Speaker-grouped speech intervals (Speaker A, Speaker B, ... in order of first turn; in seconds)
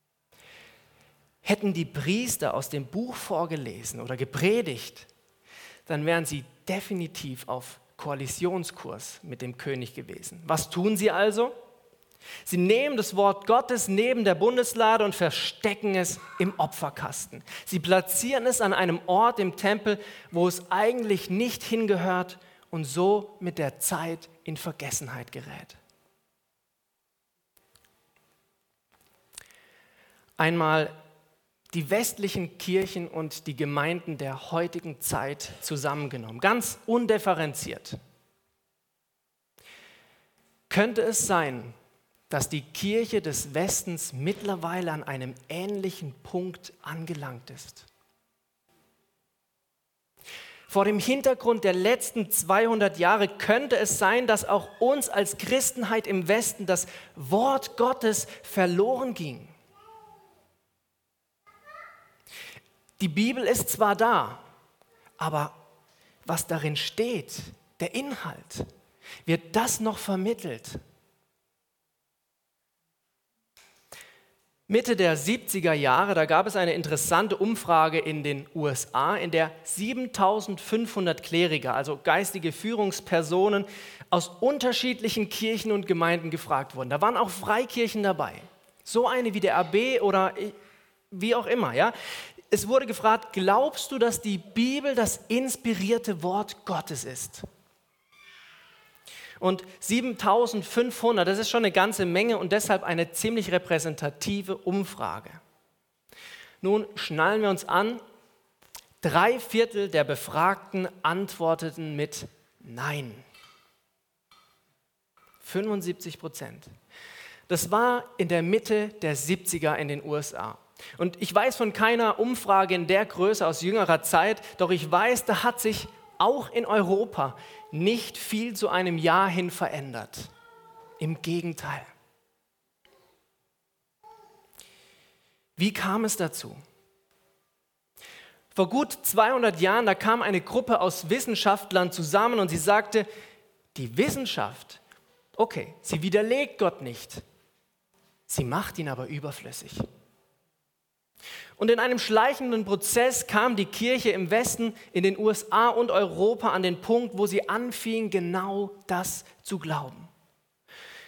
Speaker A: 1.4-5.1, 5.9-11.5, 12.4-25.8, 30.4-30.9, 31.7-38.0, 40.7-41.7, 42.3-47.9, 50.7-59.5, 63.0-64.4, 65.2-65.6, 66.2-68.7, 69.2-70.8, 74.7-90.5, 91.1-91.9, 92.5-97.5, 99.4-105.4, 106.6-108.0, 109.0-113.2, 115.4-116.7, 117.5-130.3, 131.0-131.9, 135.6-136.6, 138.5-143.1, 143.7-144.8, 145.3-147.2, 148.3-149.8, 151.6-160.1